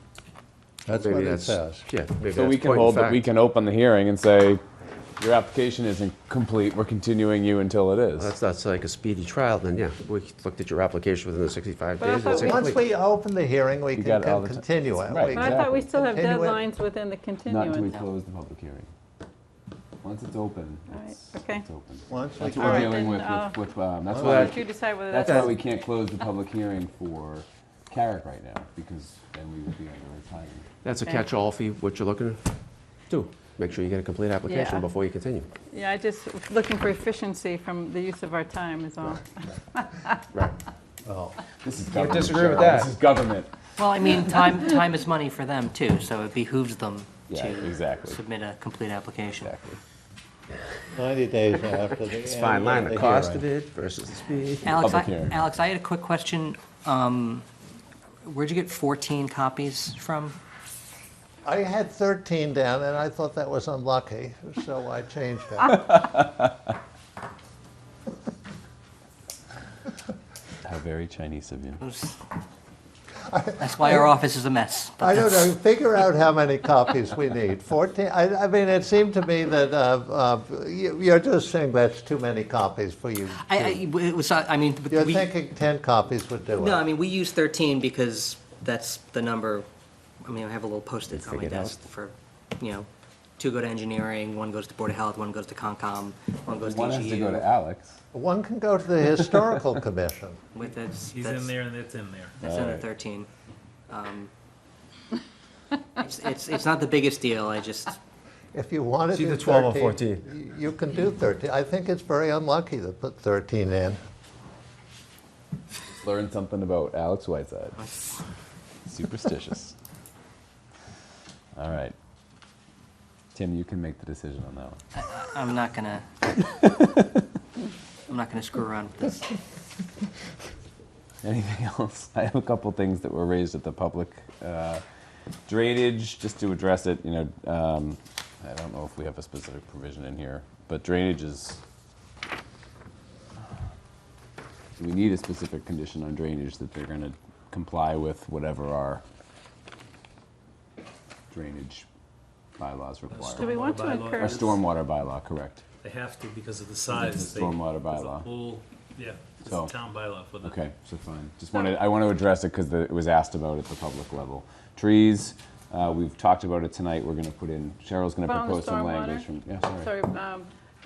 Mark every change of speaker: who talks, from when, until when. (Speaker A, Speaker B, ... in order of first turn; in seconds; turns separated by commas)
Speaker A: 0.9-1.9, Speaker B: 0.9-3.3, Speaker C: 2.3-4.6, Speaker C: 5.2-8.3, Speaker B: 8.2-12.8, Speaker D: 12.0-12.9, Speaker A: 12.3-16.6, Speaker C: 13.9-15.8, Speaker D: 15.3-17.9, Speaker C: 17.5-18.9, Speaker C: 20.0-30.7, Speaker D: 20.9-21.7, Speaker A: 22.1-22.9, Speaker D: 22.5-23.6, Speaker A: 24.1-24.4, Speaker B: 24.1-25.5, Speaker D: 24.3-25.6, Speaker B: 30.8-32.4, Speaker B: 33.1-35.5, Speaker D: 34.5-34.9, Speaker D: 35.7-40.2, Speaker A: 41.0-41.4, Speaker C: 41.6-43.5, Speaker B: 41.9-42.9, Speaker E: 43.8-49.5, Speaker C: 47.3-48.2, Speaker C: 49.4-49.8, Speaker A: 50.9-53.5, Speaker B: 52.2-54.8, Speaker E: 54.6-57.5, Speaker C: 54.7-55.5, Speaker E: 58.2-60.4, Speaker A: 61.4-65.8, Speaker C: 65.8-66.5, Speaker C: 70.6-71.8, Speaker E: 71.8-72.2, Speaker A: 73.3-74.1, Speaker E: 73.6-75.5, Speaker A: 75.0-83.8, Speaker E: 83.4-85.3, Speaker A: 84.9-86.9, Speaker E: 86.6-89.7, Speaker E: 90.2-92.9, Speaker B: 91.1-91.8, Speaker E: 93.4-97.5, Speaker C: 96.5-98.0, Speaker A: 98.1-100.4, Speaker E: 100.5-101.5, Speaker F: 100.7-102.4, Speaker E: 102.4-103.3, Speaker C: 102.4-102.8, Speaker E: 103.9-104.3, Speaker E: 106.0-108.0, Speaker A: 108.5-114.0, Speaker B: 109.1-110.2, Speaker C: 116.0-117.9, Speaker C: 118.9-119.8, Speaker C: 121.6-122.0, Speaker C: 123.3-124.8, Speaker E: 125.0-126.1, Speaker E: 128.1-129.3, Speaker C: 131.2-134.8, Speaker C: 135.5-141.6, Speaker C: 144.8-149.0, Speaker C: 151.3-151.9, Speaker C: 152.6-153.5, Speaker F: 153.1-154.6, Speaker D: 153.4-154.4, Speaker C: 154.2-155.6, Speaker F: 155.8-160.6, Speaker C: 156.9-158.3, Speaker C: 159.5-159.7, Speaker C: 160.4-169.9, Speaker D: 168.2-169.3, Speaker D: 169.8-170.5